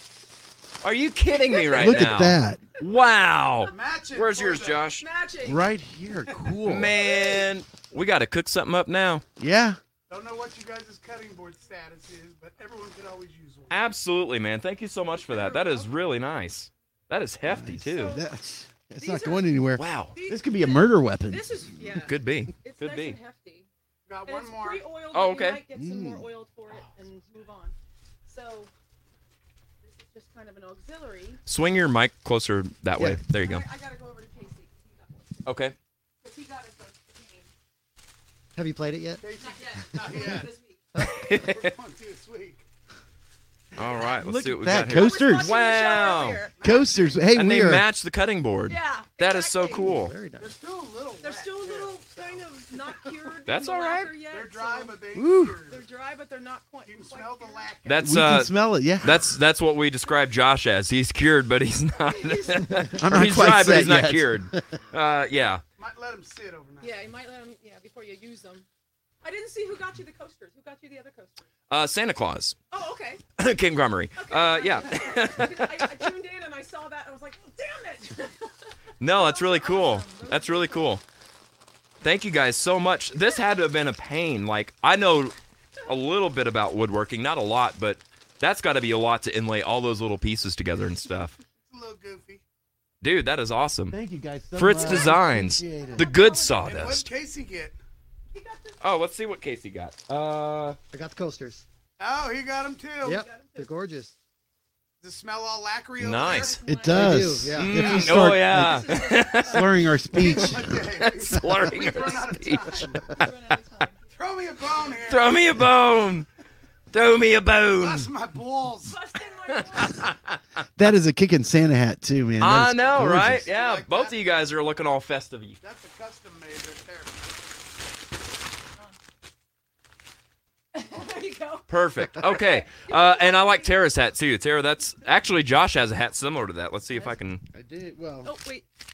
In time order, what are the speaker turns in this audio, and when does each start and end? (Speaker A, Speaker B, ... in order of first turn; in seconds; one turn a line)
Speaker A: 0.8-5.0
Speaker B: 1.3-2.0
Speaker C: 1.7-2.6
Speaker D: 3.6-4.9
Speaker B: 5.0-5.7
Speaker C: 5.4-7.0
Speaker A: 6.7-9.2
Speaker C: 9.4-9.8
Speaker D: 10.1-13.8
Speaker A: 13.7-18.2
Speaker B: 15.2-15.9
Speaker C: 17.4-21.9
Speaker B: 17.9-18.3
Speaker B: 19.0-19.6
Speaker A: 19.8-20.1
Speaker B: 20.1-23.7
Speaker A: 22.0-23.2
Speaker D: 24.1-24.9
Speaker B: 24.2-27.7
Speaker A: 25.1-25.6
Speaker C: 25.7-26.3
Speaker B: 28.2-28.7
Speaker B: 29.8-31.4
Speaker A: 31.4-33.7
Speaker B: 33.2-35.5
Speaker A: 35.4-35.7
Speaker B: 36.2-37.5
Speaker E: 38.5-39.2
Speaker D: 39.2-40.5
Speaker B: 39.3-40.8
Speaker E: 39.9-40.5
Speaker A: 41.0-41.7
Speaker D: 41.3-42.6
Speaker A: 43.8-46.5
Speaker C: 44.0-45.5
Speaker B: 44.8-46.6
Speaker D: 46.6-47.3
Speaker C: 46.6-47.8
Speaker A: 47.3-50.1
Speaker B: 48.7-50.0
Speaker E: 49.8-50.5
Speaker D: 50.4-53.1
Speaker B: 51.2-55.0
Speaker A: 53.5-54.1
Speaker D: 54.2-55.8
Speaker C: 55.1-55.6
Speaker B: 55.7-57.8
Speaker D: 56.8-58.1
Speaker A: 57.9-65.6
Speaker C: 58.0-59.2
Speaker B: 62.0-62.9
Speaker C: 63.0-64.8
Speaker D: 65.8-67.0
Speaker B: 66.8-68.7
Speaker B: 69.2-71.4
Speaker A: 71.7-72.5
Speaker B: 72.7-73.2
Speaker A: 73.4-76.1
Speaker B: 74.2-81.0
Speaker A: 79.0-81.0
Speaker A: 82.0-91.3
Speaker B: 83.2-83.5
Speaker D: 91.6-92.4
Speaker A: 93.0-94.0
Speaker C: 93.9-96.0
Speaker A: 94.5-97.1
Speaker B: 94.8-96.9
Speaker D: 96.6-97.8
Speaker B: 98.3-98.8
Speaker A: 98.8-100.8
Speaker E: 100.9-101.6
Speaker D: 102.0-103.2
Speaker E: 103.0-104.1
Speaker B: 103.1-103.7
Speaker D: 105.0-106.7
Speaker A: 106.0-106.6
Speaker B: 106.2-109.8
Speaker C: 106.6-110.8
Speaker E: 106.9-107.8
Speaker A: 107.5-113.3
Speaker D: 110.1-113.1
Speaker B: 113.0-114.1
Speaker D: 114.1-115.6
Speaker A: 115.0-116.3
Speaker A: 116.9-118.1
Speaker D: 117.8-119.0
Speaker B: 118.8-120.1
Speaker A: 119.5-120.4
Speaker C: 120.8-123.5
Speaker A: 122.4-125.6
Speaker D: 123.0-124.2
Speaker D: 125.6-127.3
Speaker B: 130.7-133.8
Speaker A: 131.7-137.4
Speaker B: 136.9-137.2
Speaker C: 137.5-138.3
Speaker B: 138.2-138.7